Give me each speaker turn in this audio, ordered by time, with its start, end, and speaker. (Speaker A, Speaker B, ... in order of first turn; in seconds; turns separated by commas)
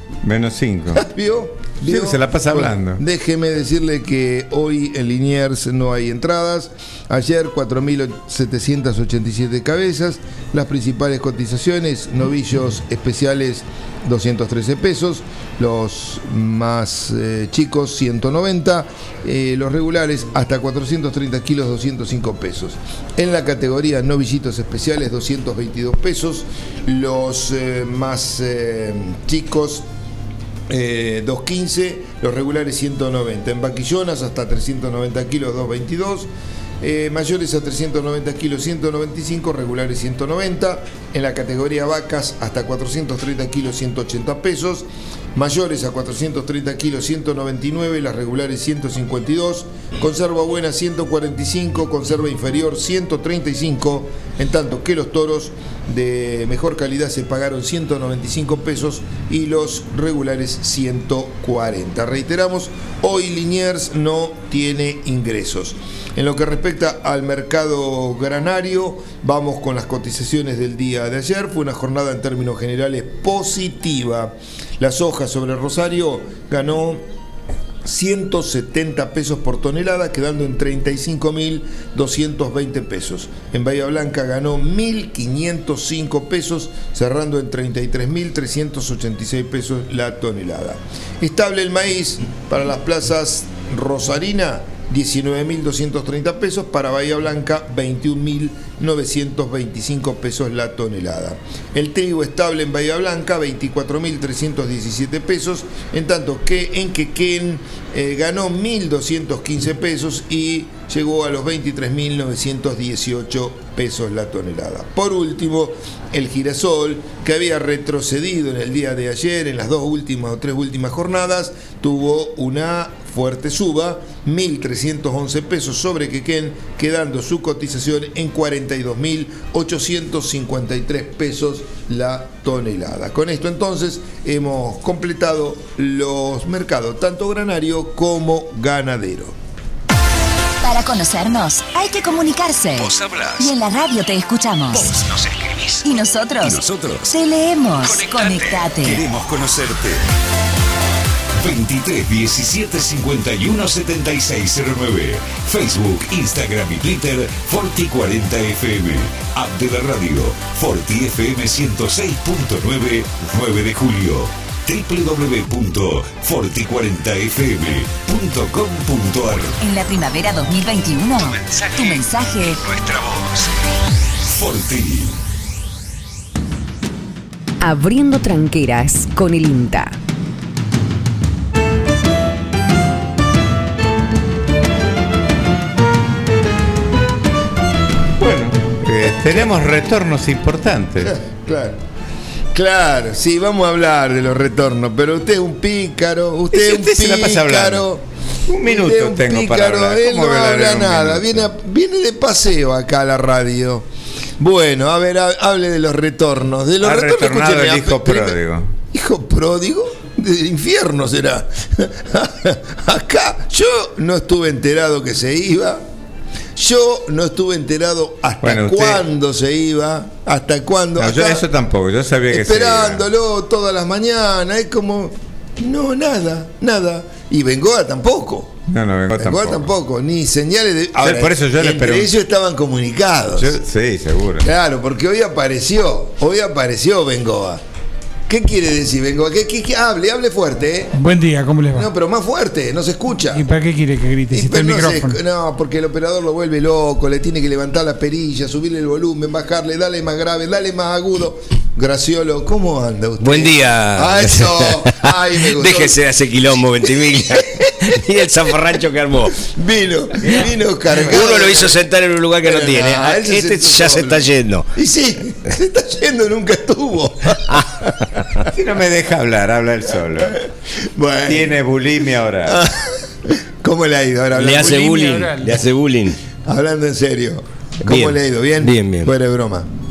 Speaker A: 0.2-1.0, Speaker B: 0.9-29.9, Speaker A: 1.8-3.0, Speaker B: 30.7-36.3, Speaker B: 36.8-77.0, Speaker B: 77.8-139.4, Speaker C: 140.6-145.0, Speaker D: 142.7-143.6, Speaker D: 144.7-150.0, Speaker C: 145.8-149.1, Speaker D: 151.4-169.6, Speaker C: 169.6-172.6, Speaker D: 171.2-173.4, Speaker D: 174.2-175.2, Speaker E: 177.6-180.0, Speaker A: 188.2-191.2, Speaker B: 191.0-191.8, Speaker B: 192.5-203.9, Speaker A: 196.5-197.9, Speaker A: 198.5-201.5, Speaker B: 204.4-208.4, Speaker A: 206.8-208.7, Speaker B: 208.9-215.8, Speaker B: 216.6-221.4, Speaker A: 218.4-219.1, Speaker A: 221.0-223.1, Speaker B: 222.3-228.6, Speaker A: 228.7-229.7, Speaker B: 229.2-233.6, Speaker A: 231.0-232.1, Speaker A: 233.4-234.5, Speaker B: 234.4-237.6, Speaker B: 238.3-241.0, Speaker F: 240.9-241.9, Speaker B: 241.7-243.5, Speaker F: 243.3-245.2, Speaker B: 244.3-256.0, Speaker G: 253.2-259.4, Speaker B: 256.8-258.0, Speaker B: 259.4-261.8, Speaker G: 261.0-264.7, Speaker B: 262.4-268.0, Speaker A: 268.4-270.5, Speaker B: 270.7-271.6, Speaker A: 271.2-272.6, Speaker B: 272.4-275.6, Speaker G: 274.3-276.2, Speaker F: 274.9-275.2, Speaker B: 276.4-279.7, Speaker G: 277.8-279.1